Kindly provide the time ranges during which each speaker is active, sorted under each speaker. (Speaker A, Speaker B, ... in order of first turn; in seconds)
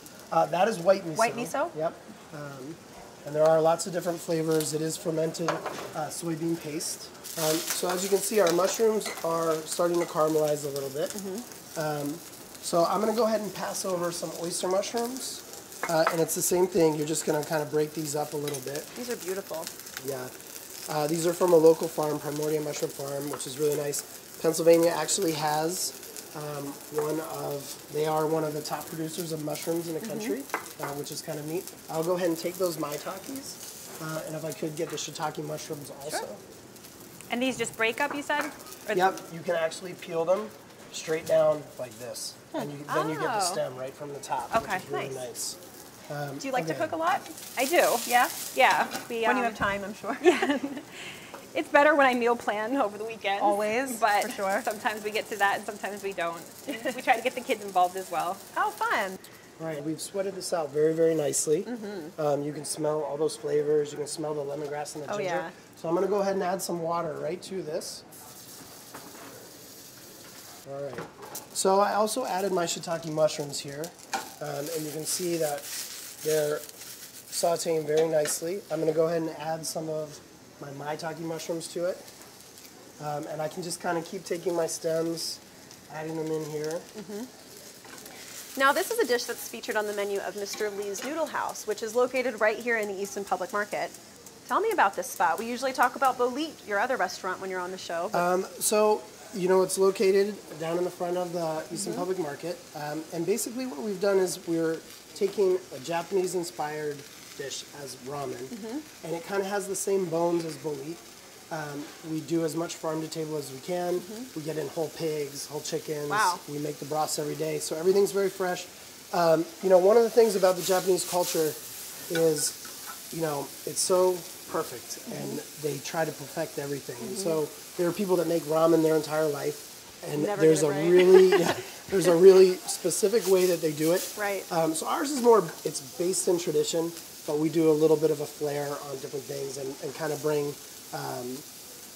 Speaker A: 0.3-11.1, 11.8-18.9, 20.0-20.3, 20.9-36.4, 38.9-46.9, 59.6-68.0, 70.6-76.7, 77.3-82.0, 83.0-86.9, 98.1-122.6, 123.1-141.4
Speaker B: 1.1-1.8, 11.1-11.4, 18.9-19.7, 30.0-30.3, 44.9-45.3, 46.4-47.3, 48.1-48.5, 49.2-50.6, 53.4-54.6, 56.7-56.9, 58.5-59.2, 61.6-62.1, 65.1-65.5, 86.9-87.3, 88.5-98.2, 101.8-102.0, 108.5-108.9, 114.0-114.3, 116.1-116.4, 125.1-125.4, 127.0-127.4, 130.1-131.6, 134.2-134.5
Speaker C: 37.3-39.1, 42.9-43.6, 44.5-44.9, 47.6-49.6, 50.2-58.4